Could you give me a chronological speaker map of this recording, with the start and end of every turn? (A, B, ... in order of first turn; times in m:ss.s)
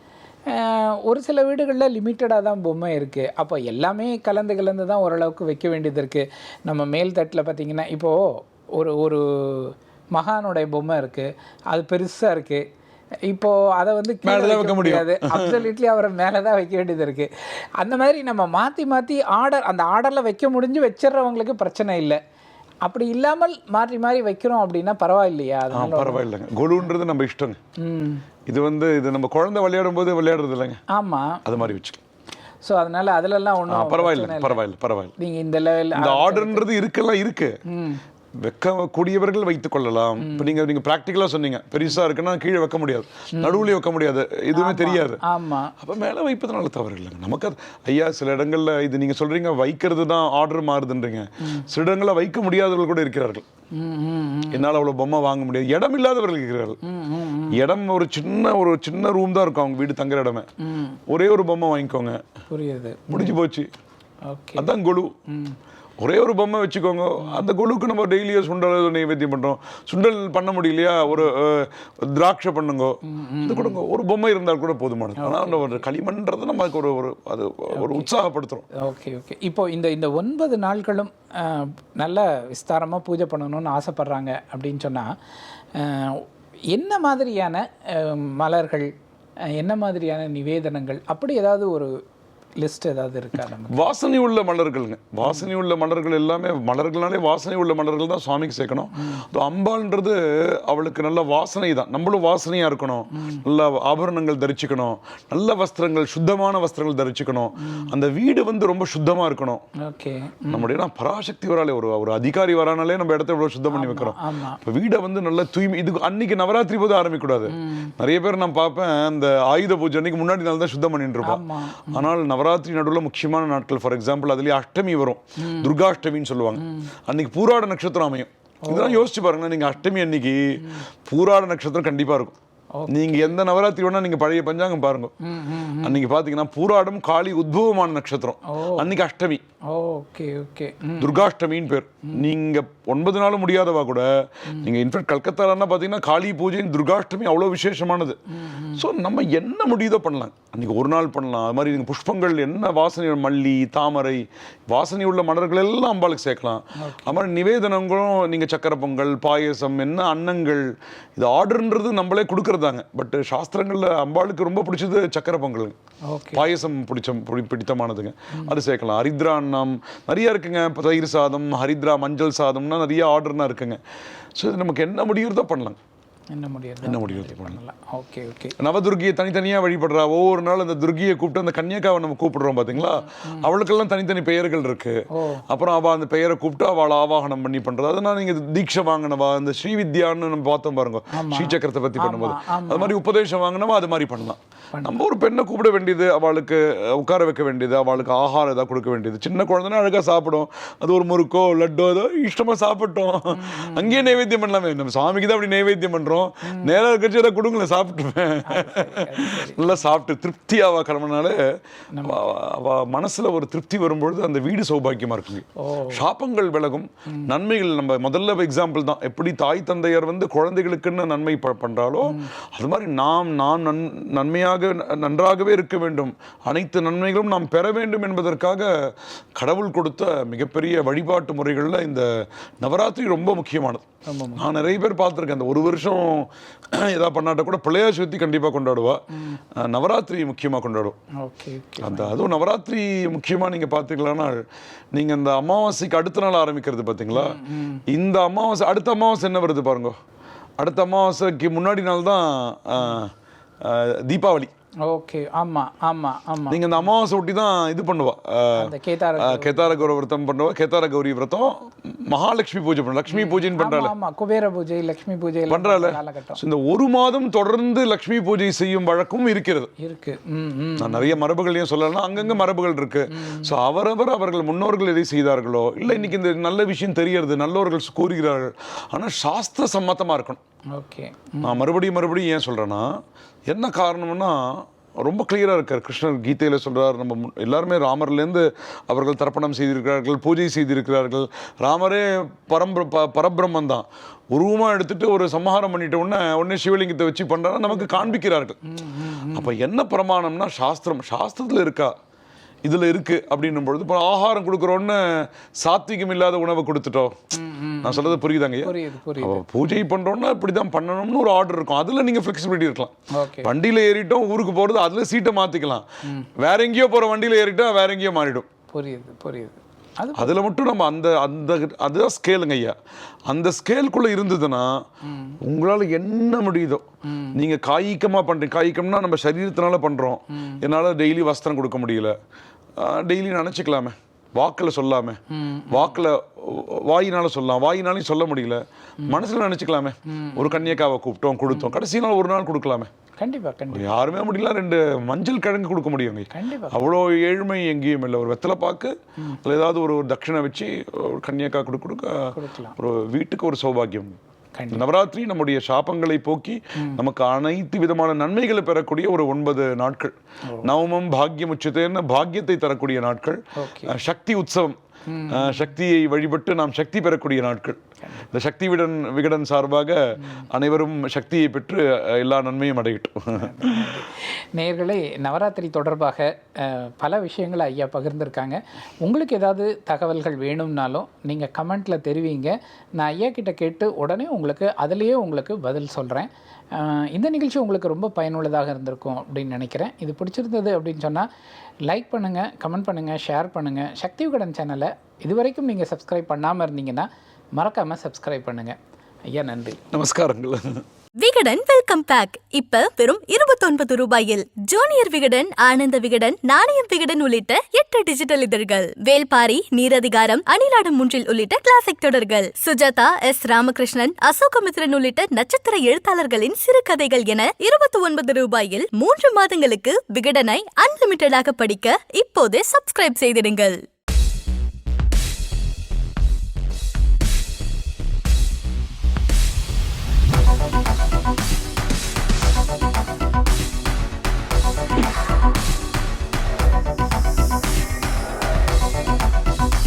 0:00.5-0:12.6 A
0:13.2-0:22.2 A
0:14.2-0:15.6 B
0:22.8-0:26.2 A
0:25.7-0:27.6 B
0:27.8-0:28.2 A
0:28.5-0:30.8 B
0:30.9-0:31.4 A
0:31.4-0:32.0 B
0:32.6-0:34.6 A
0:33.7-0:35.1 B
0:35.2-0:36.7 A
0:35.9-0:37.6 B
0:37.7-0:38.0 A
0:38.4-0:45.2 B
0:40.2-0:40.6 A
0:43.4-0:43.7 A
0:44.5-0:45.7 A
0:45.8-0:53.4 B
0:53.7-0:54.8 A
0:54.5-0:56.8 B
0:56.8-0:57.6 A
0:57.5-1:00.5 B
1:00.6-1:01.0 A
1:01.1-1:02.2 B
1:02.5-1:03.4 A
1:03.1-1:03.7 B
1:04.2-1:04.7 A
1:04.6-1:05.1 B
1:05.3-1:05.6 A
1:06.0-1:18.6 B
1:13.0-1:13.8 A
1:15.2-1:15.8 A
1:17.8-1:18.1 A
1:18.7-1:25.1 A
1:25.7-1:28.9 A
1:29.6-1:32.0 A
1:32.6-1:33.8 A
1:33.7-1:49.6 B
1:43.2-1:43.4 A
1:47.6-1:47.9 A
1:49.8-1:50.7 A
1:50.5-2:12.4 B
1:53.7-1:54.6 A
1:57.5-1:57.9 A
2:01.2-2:02.1 A
2:05.4-2:05.7 A
2:06.6-2:06.9 A
2:08.6-2:09.0 A
2:12.7-2:13.0 A
2:12.9-2:15.1 B
2:15.2-2:16.0 A
2:15.8-2:19.4 B
2:18.5-2:18.9 A
2:19.7-2:21.2 A
2:21.0-2:28.2 B
2:28.3-2:28.8 A
2:28.7-2:45.8 B
2:36.8-2:37.2 A
2:46.1-2:46.4 A
2:46.3-2:53.8 B
2:54.4-2:55.8 B
2:56.3-2:58.6 A
2:56.8-2:57.6 B
2:58.6-3:31.4 B
3:02.7-3:03.5 A
3:05.1-3:05.4 A
3:11.1-3:12.9 A
3:14.7-3:15.0 A
3:23.3-3:24.1 A
3:26.4-3:26.7 A
3:28.4-3:29.8 A
3:31.9-3:32.2 A
3:32.0-3:53.8 B
3:35.6-3:36.0 A
3:42.0-3:42.3 A
3:54.0-3:54.4 A
3:54.4-4:01.0 B
4:01.2-4:02.3 A
4:01.8-4:04.4 B
4:04.9-4:10.0 B
4:07.1-4:07.8 A
4:10.6-4:14.5 B
4:14.8-4:16.8 A
4:16.5-4:23.9 B
4:18.6-4:19.9 A
4:23.1-4:26.4 A
4:25.5-4:29.7 B
4:29.8-4:31.2 A
4:30.8-4:40.4 B
4:33.1-4:33.5 A
4:35.9-4:36.1 A
4:40.7-4:41.6 A
4:41.4-4:42.9 B
4:43.5-4:58.6 B
4:57.7-4:59.5 A
4:59.3-5:01.9 B
5:02.6-5:07.2 B
5:07.3-5:09.4 A
5:07.8-5:15.8 B
5:13.1-5:13.5 A
5:16.4-5:18.5 B
5:18.7-5:20.4 A
5:20.2-5:22.7 B
5:23.3-5:24.8 B
5:25.0-5:25.4 A
5:25.4-5:32.2 B
5:27.0-5:27.3 A
5:32.8-5:42.9 B
5:35.3-5:36.0 A
5:40.1-5:40.8 A
5:41.5-5:41.7 A
5:43.2-5:43.9 A
5:43.7-5:54.2 B
5:46.3-5:46.9 A
5:52.3-5:52.7 A
5:54.6-5:54.8 A
5:54.7-6:04.8 B
6:03.6-6:03.9 A
6:05.1-6:05.7 A
6:05.3-6:14.0 B
6:10.2-6:10.5 A
6:13.3-6:31.3 A
6:31.8-6:38.8 A
6:39.3-6:39.8 A
6:39.9-6:40.8 B
6:41.2-7:03.8 C